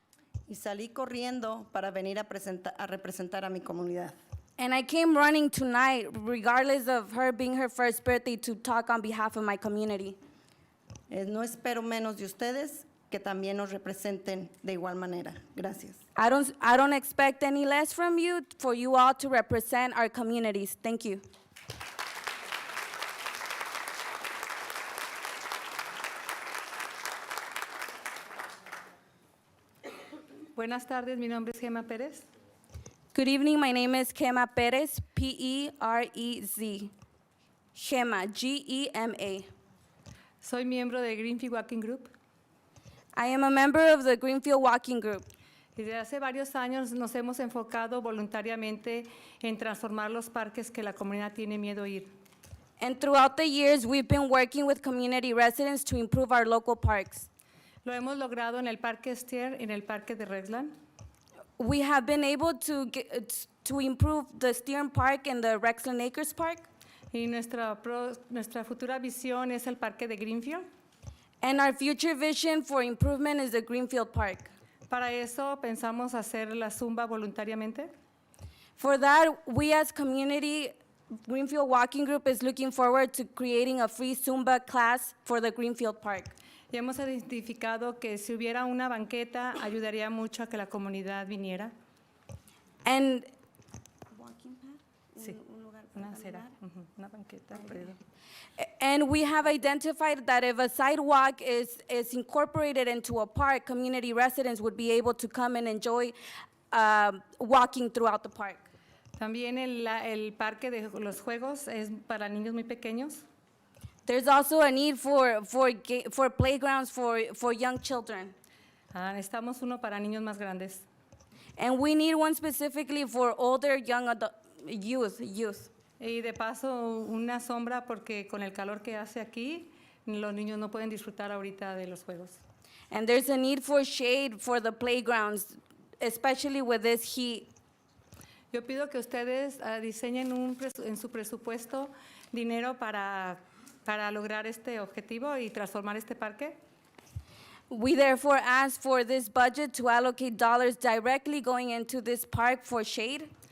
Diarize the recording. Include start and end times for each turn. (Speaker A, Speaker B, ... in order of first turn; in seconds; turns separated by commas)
Speaker A: 0.5-4.2, Speaker B: 4.6-10.2, Speaker A: 11.1-16.0, Speaker B: 16.2-21.2, Speaker C: 30.6-32.3, Speaker B: 33.1-36.9, Speaker B: 37.8-39.5, Speaker C: 40.4-42.1, Speaker B: 43.1-45.3, Speaker C: 45.8-52.1, Speaker B: 52.8-57.3, Speaker C: 57.8-60.7, Speaker B: 61.6-66.7, Speaker C: 67.1-70.6, Speaker B: 71.4-74.5, Speaker C: 74.9-77.9, Speaker B: 78.8-80.7, Speaker B: 81.3-86.3, Speaker C: 86.7-91.7, Speaker B: 92.8-93.3, Speaker B: 94.1-96.5, Speaker C: 96.0-98.0, Speaker B: 98.6-106.1, Speaker B: 106.7-108.7, Speaker C: 109.2-113.2, Speaker B: 114.1-118.3, Speaker C: 118.9-120.8, Speaker B: 121.6-125.7, Speaker C: 126.0-132.4, Speaker B: 132.9-137.5, Speaker C: 138.5-146.6, Speaker B: 147.7-153.3